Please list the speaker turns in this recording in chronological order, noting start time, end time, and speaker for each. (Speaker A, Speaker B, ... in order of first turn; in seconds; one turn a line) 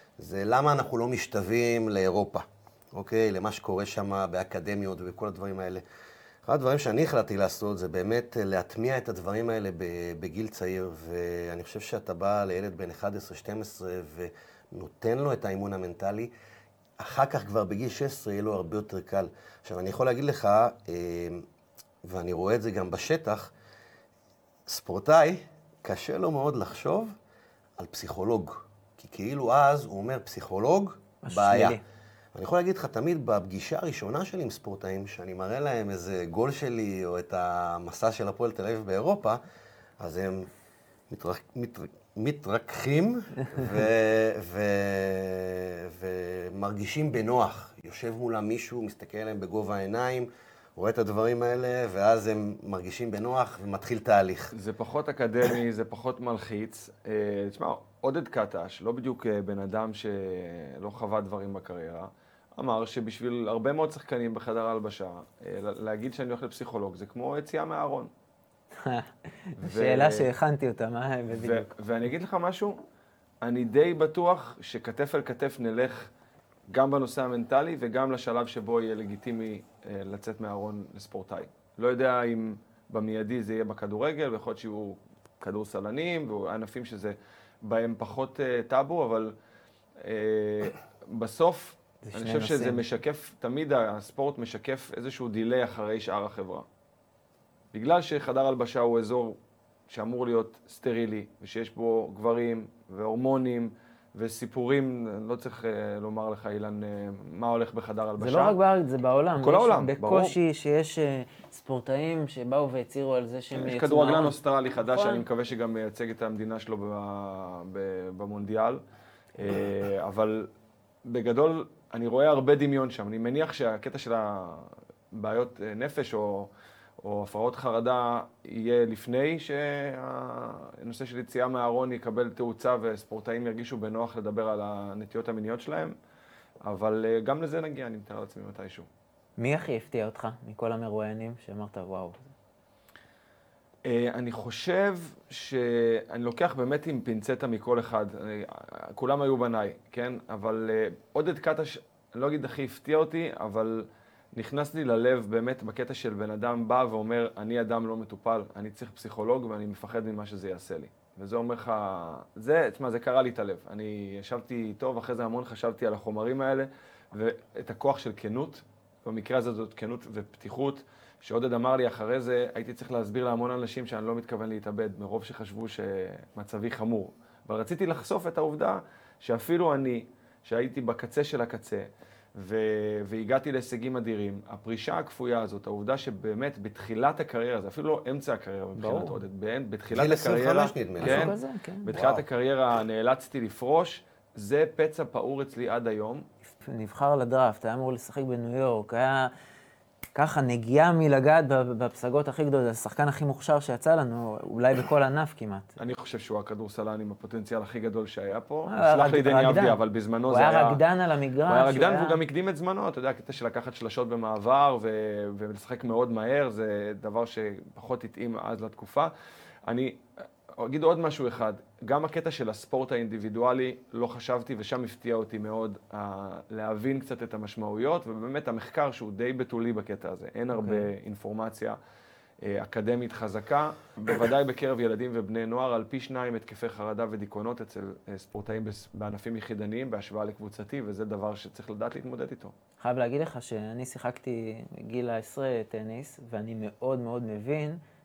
Speaker A: 0.2-5.8
Speaker A: 6.5-16.3
Speaker A: 17.0-21.5
Speaker A: 22.0-23.5
Speaker A: 24.7-27.1
Speaker A: 27.8-31.8
Speaker B: 31.2-31.8
Speaker A: 32.3-39.4
Speaker A: 40.0-40.5
Speaker A: 41.1-54.5
Speaker C: 54.5-68.1
Speaker B: 68.8-71.7
Speaker C: 69.6-70.3
Speaker C: 71.3-72.8
Speaker C: 73.4-76.1
Speaker C: 76.7-89.3
Speaker C: 90.0-96.7
Speaker B: 92.0-92.8
Speaker C: 97.7-99.4
Speaker C: 99.9-108.6
Speaker B: 108.2-115.2
Speaker C: 109.4-110.4
Speaker C: 113.5-118.8
Speaker C: 119.4-120.5
Speaker C: 121.0-126.5
Speaker C: 127.0-136.0
Speaker C: 136.6-138.9
Speaker B: 139.4-142.3
Speaker C: 143.8-196.3
Speaker B: 188.8-189.2
Speaker A: 189.9-191.3
Speaker B: 191.0-191.9
Speaker A: 191.9-192.2
Speaker B: 196.6-199.3
Speaker B: 200.2-205.7
Speaker C: 205.8-210.8
Speaker B: 208.7-212.2
Speaker C: 211.5-219.1
Speaker C: 219.7-231.8
Speaker B: 230.5-230.9
Speaker C: 232.4-242.5
Speaker B: 242.8-247.8